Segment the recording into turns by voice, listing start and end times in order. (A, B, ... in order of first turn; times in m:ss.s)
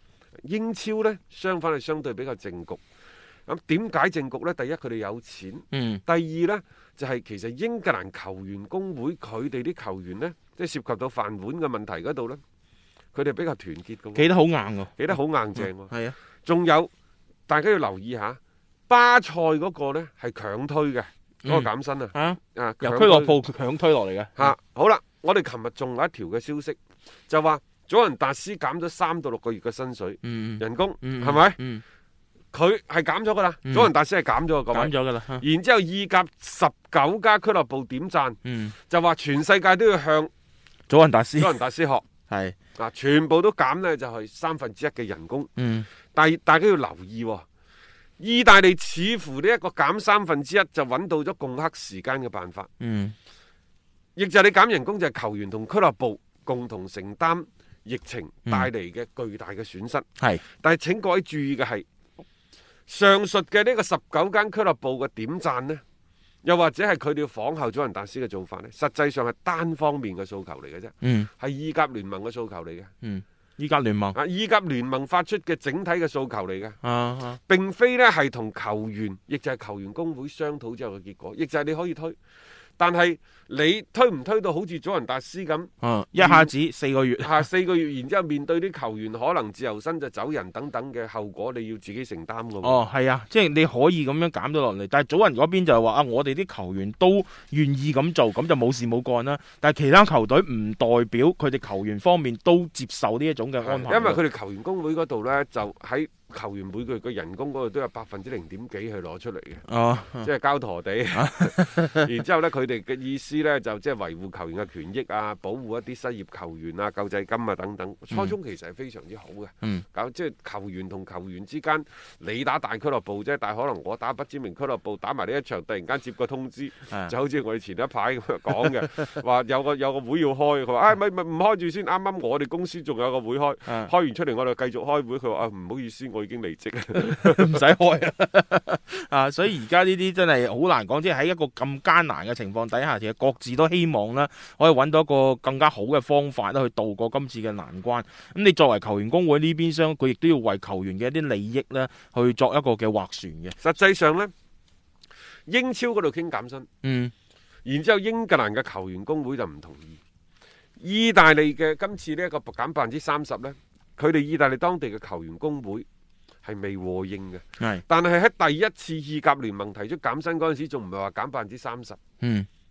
0:00.4-0:02.8 A
0:03.5-0:12.4 A
0:05.7-0:06.0 B
0:13.1-0:14.3 A
0:14.1-0:16.2 B
0:15.0-0:15.9 A
0:16.4-0:16.9 A
0:17.5-0:23.4 A
0:21.4-0:24.5 B
0:24.4-0:31.6 A
0:30.2-0:31.8 B
0:32.5-0:40.3 A
0:33.6-0:33.9 B
0:34.7-0:35.4 B
0:38.4-0:38.7 B
0:40.9-0:41.6 B
0:41.4-0:42.0 A
0:42.3-0:42.5 B
0:42.8-0:45.5 A
0:45.6-0:45.9 B
0:46.1-0:47.4 A
0:48.2-0:52.7 A
0:52.8-0:53.1 B
0:54.2-1:00.0 A
1:00.6-1:01.8 A
1:02.9-1:05.8 A
1:06.4-1:12.9 A
1:11.0-1:11.3 B
1:13.0-1:14.2 B
1:14.1-1:16.8 A
1:16.8-1:17.4 B
1:17.5-1:22.2 A
1:22.8-1:26.5 A
1:25.8-1:27.4 B
1:27.2-1:32.8 A
1:32.6-1:44.2 B
1:43.6-1:49.6 A
1:49.7-1:50.3 B
1:50.2-2:17.6 A
1:51.1-1:52.1 B
2:17.0-2:33.6 B
2:33.6-2:34.3 A
2:35.5-2:36.7 A
2:36.8-2:37.1 B
2:37.6-2:40.0 A
2:40.8-2:45.8 A
2:46.4-2:52.0 A
2:52.2-2:52.5 B